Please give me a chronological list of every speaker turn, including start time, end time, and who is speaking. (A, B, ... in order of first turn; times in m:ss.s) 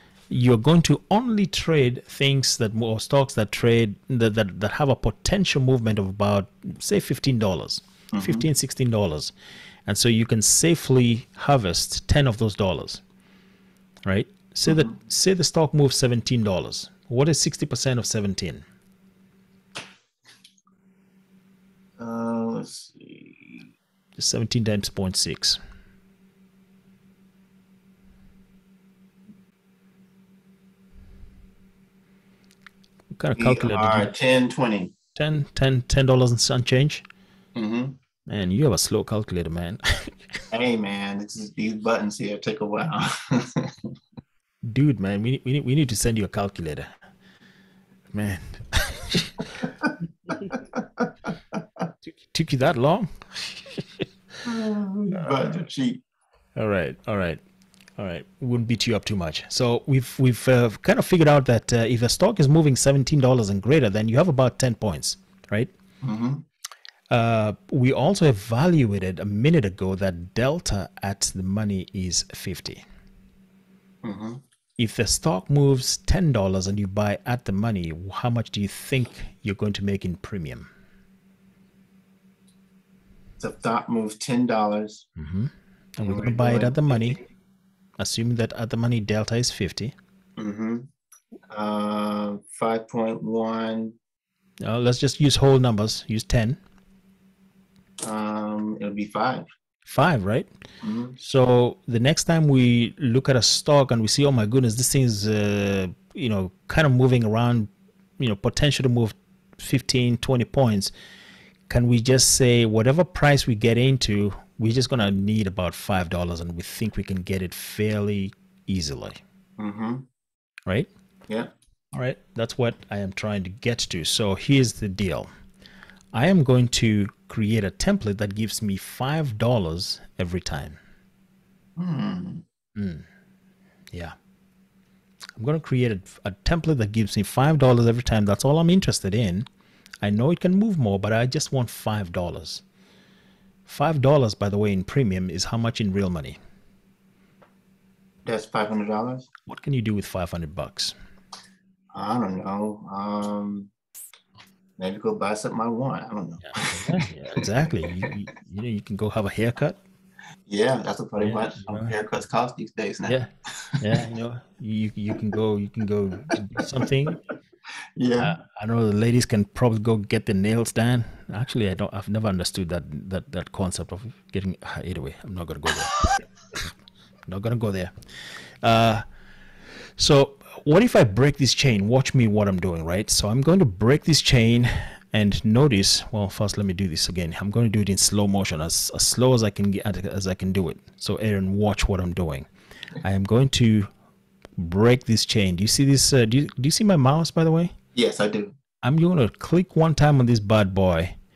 0:00.3-0:09.3 A
0:08.1-0:08.4 B
0:09.8-0:13.0 A
0:14.0-0:18.6 A
0:14.7-0:14.9 B
0:22.0-0:23.6 B
0:24.2-0:25.6 A
0:33.1-0:34.1 A
0:33.4-0:34.9 B
0:35.2-0:37.0 A
0:37.6-0:38.0 B
0:38.3-0:40.2 A
0:40.5-0:43.9 B
0:44.6-0:46.9 A
0:48.1-0:49.7 A
0:49.8-0:51.6 B
0:52.0-0:54.0 A
0:54.4-0:56.0 B
0:56.6-0:57.4 A
0:58.0-1:05.7 A
1:06.0-1:06.4 B
1:07.1-1:12.8 A
1:14.0-1:14.4 B
1:14.8-1:20.7 A
1:23.4-1:25.0 B
1:25.2-1:27.2 A
1:26.0-1:27.2 B
1:28.0-1:29.9 A
1:30.4-1:30.9 B
1:31.5-1:34.0 B
1:34.6-1:36.6 A
1:38.0-1:39.5 B
1:39.9-1:40.5 A
1:40.8-1:41.2 B
1:41.2-1:50.9 A
1:51.7-1:59.2 A
1:59.6-2:00.1 B
2:01.9-2:05.3 A
2:06.1-2:10.8 A
2:11.8-2:12.4 B
2:12.8-2:13.0 A
2:15.4-2:19.5 A
2:20.0-2:22.6 A
2:23.7-2:26.4 A
2:28.2-2:29.3 B
2:29.5-2:30.9 A
2:31.9-2:33.7 B
2:34.8-2:38.2 B
2:36.4-2:39.8 A
2:40.5-2:44.0 B
2:41.2-2:41.9 A
2:43.0-2:47.2 A
2:46.3-2:47.1 B
2:48.0-2:48.4 B
2:48.2-2:56.2 A
2:57.3-2:57.9 A
2:58.6-2:59.0 A
3:00.0-3:12.5 A
3:13.0-3:13.9 A
3:14.6-3:17.7 A
3:17.9-3:18.5 B
3:18.8-3:21.2 A